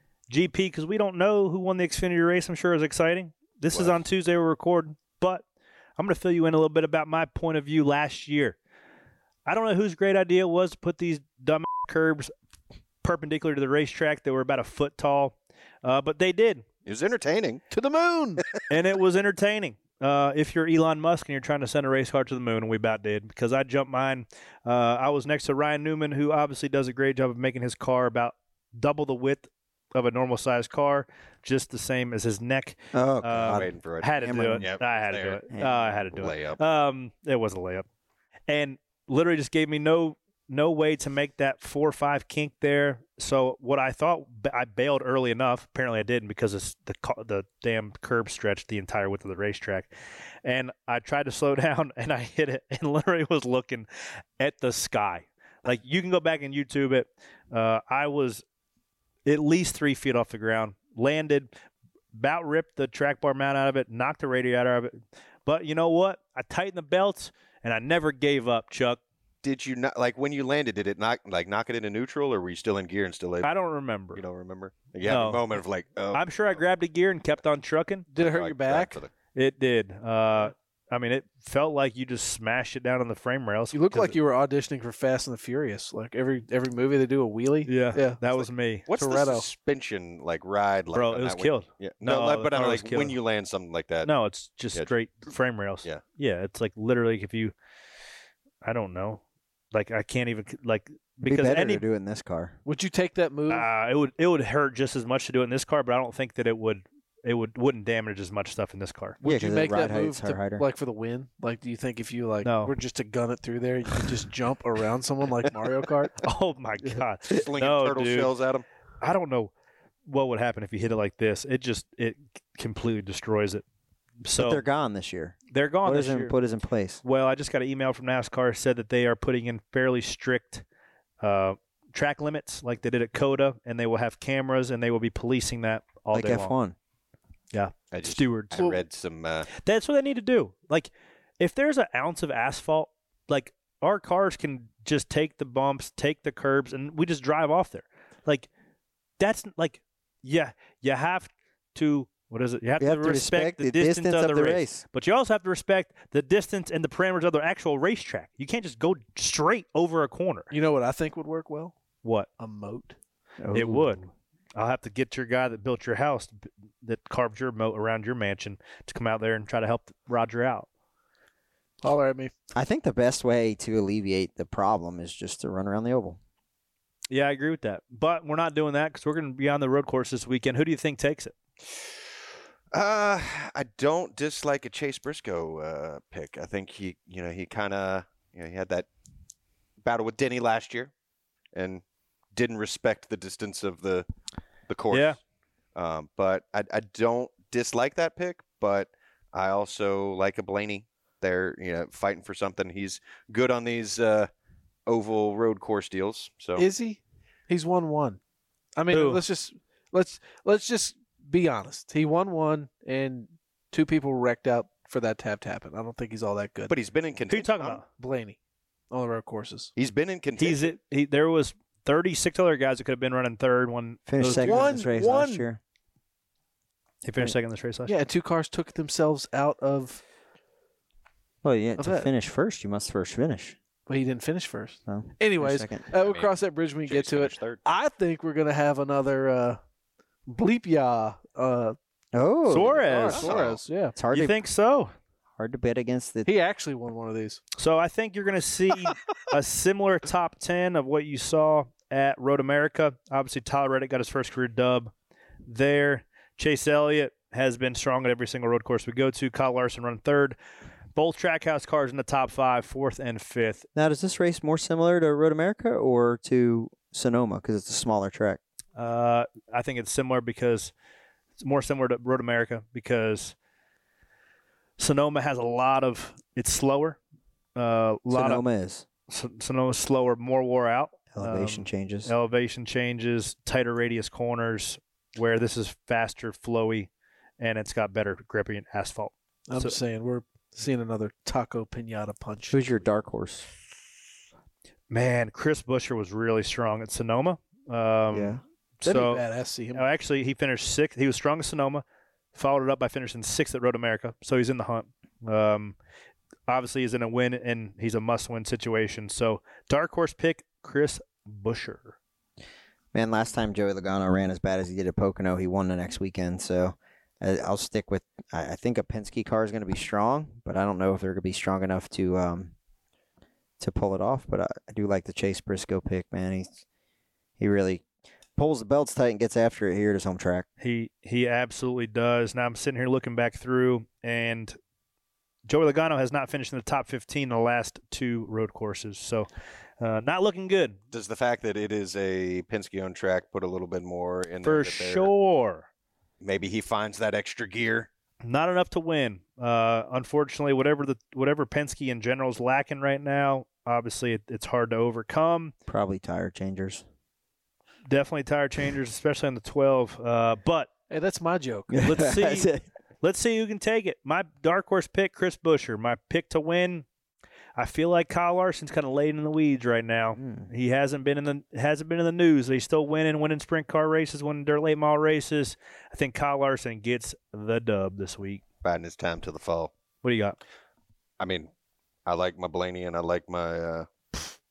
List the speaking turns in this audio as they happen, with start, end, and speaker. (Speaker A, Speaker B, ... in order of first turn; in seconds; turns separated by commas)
Speaker A: 0.3-5.4, Speaker B: 3.7-4.0, Speaker A: 6.0-8.6, Speaker A: 9.4-12.3, Speaker A: 13.0-16.6, Speaker B: 16.8-17.6, Speaker C: 17.7-18.5, Speaker A: 18.7-37.9, Speaker D: 32.9-33.7, Speaker B: 33.4-35.4, Speaker D: 34.2-34.6, Speaker D: 35.5-36.0, Speaker B: 36.1-36.6, Speaker A: 38.5-49.9, Speaker A: 50.4-53.9, Speaker A: 54.4-58.4, Speaker A: 59.2-61.5, Speaker A: 62.1-69.0, Speaker B: 69.4-73.5, Speaker A: 73.4-74.2, Speaker B: 74.1-76.6, Speaker A: 75.0-75.5, Speaker A: 76.1-78.1, Speaker C: 78.1-79.0, Speaker B: 78.2-79.1, Speaker A: 79.3-84.1, Speaker C: 83.7-88.2, Speaker A: 87.7-88.9, Speaker B: 88.3-94.1, Speaker C: 89.0-89.5, Speaker A: 90.9-93.2, Speaker A: 94.0-97.5, Speaker A: 98.6-99.2, Speaker A: 99.7-101.8, Speaker D: 101.2-102.5, Speaker C: 102.6-103.7, Speaker A: 103.5-109.2, Speaker C: 109.2-116.2, Speaker D: 109.2-110.6, Speaker A: 112.4-112.7, Speaker A: 116.2-118.3, Speaker B: 117.3-118.6, Speaker A: 119.0-119.5, Speaker A: 120.0-123.6, Speaker A: 124.2-124.6, Speaker D: 124.3-127.0, Speaker A: 125.5-126.3, Speaker A: 127.0-130.6, Speaker A: 131.2-136.5, Speaker D: 136.1-136.7, Speaker A: 137.5-138.8, Speaker B: 137.9-139.5, Speaker A: 139.5-148.5, Speaker A: 149.2-160.5, Speaker D: 152.8-154.8, Speaker C: 160.5-161.8, Speaker A: 162.0-162.3, Speaker C: 162.4-162.9, Speaker D: 163.4-163.9, Speaker A: 163.5-170.7, Speaker C: 171.8-172.3, Speaker D: 172.5-176.2, Speaker A: 177.1-181.3, Speaker B: 182.7-188.9, Speaker B: 189.8-190.9, Speaker B: 191.5-191.8, Speaker B: 192.3-194.1, Speaker B: 194.7-195.2, Speaker A: 194.9-195.2, Speaker B: 195.8-204.3, Speaker B: 204.8-206.6, Speaker C: 206.6-208.2, Speaker C: 208.8-216.7, Speaker A: 208.9-209.2, Speaker B: 216.7-217.8, Speaker A: 217.3-217.8, Speaker C: 217.9-218.4, Speaker C: 218.9-219.7, Speaker B: 219.8-220.7, Speaker A: 220.3-224.7, Speaker D: 224.1-225.6, Speaker C: 224.4-225.5, Speaker B: 224.4-224.7, Speaker A: 227.0-227.9, Speaker C: 227.8-230.0, Speaker D: 231.4-233.6, Speaker C: 231.8-232.1, Speaker C: 233.9-239.6, Speaker D: 234.9-235.8, Speaker B: 235.9-237.6, Speaker C: 240.3-241.8, Speaker D: 242.1-242.8, Speaker A: 242.4-243.3, Speaker C: 242.6-243.9, Speaker B: 243.1-243.6, Speaker D: 243.9-244.3, Speaker A: 244.1-244.9, Speaker D: 245.4-246.3, Speaker C: 246.2-247.4, Speaker A: 247.6-254.9, Speaker A: 255.4-260.4, Speaker A: 260.9-263.6, Speaker D: 263.8-268.4, Speaker A: 268.8-270.7, Speaker A: 271.4-273.4, Speaker A: 274.8-277.0, Speaker A: 277.6-278.4, Speaker D: 278.1-278.9, Speaker A: 279.1-289.8, Speaker D: 281.1-282.1, Speaker C: 289.5-292.6, Speaker D: 292.5-293.5, Speaker A: 294.9-299.2, Speaker D: 298.1-298.4, Speaker C: 298.8-299.8, Speaker A: 299.7-301.8, Speaker A: 302.3-305.8, Speaker A: 306.5-312.0, Speaker D: 312.9-322.5, Speaker D: 323.6-326.6, Speaker D: 327.4-327.8, Speaker D: 328.4-330.4, Speaker A: 330.6-334.6, Speaker A: 335.4-339.3, Speaker A: 339.8-340.8, Speaker B: 340.9-345.1, Speaker A: 344.4-345.7, Speaker B: 346.2-347.9, Speaker A: 348.2-355.5, Speaker D: 355.7-356.8, Speaker A: 357.9-360.7, Speaker C: 360.9-361.7, Speaker D: 361.7-362.6, Speaker A: 361.8-362.5, Speaker A: 363.0-366.9, Speaker A: 367.6-378.4, Speaker D: 370.2-370.5, Speaker B: 378.6-379.7, Speaker A: 380.0-380.4, Speaker B: 381.2-381.5, Speaker B: 382.1-384.3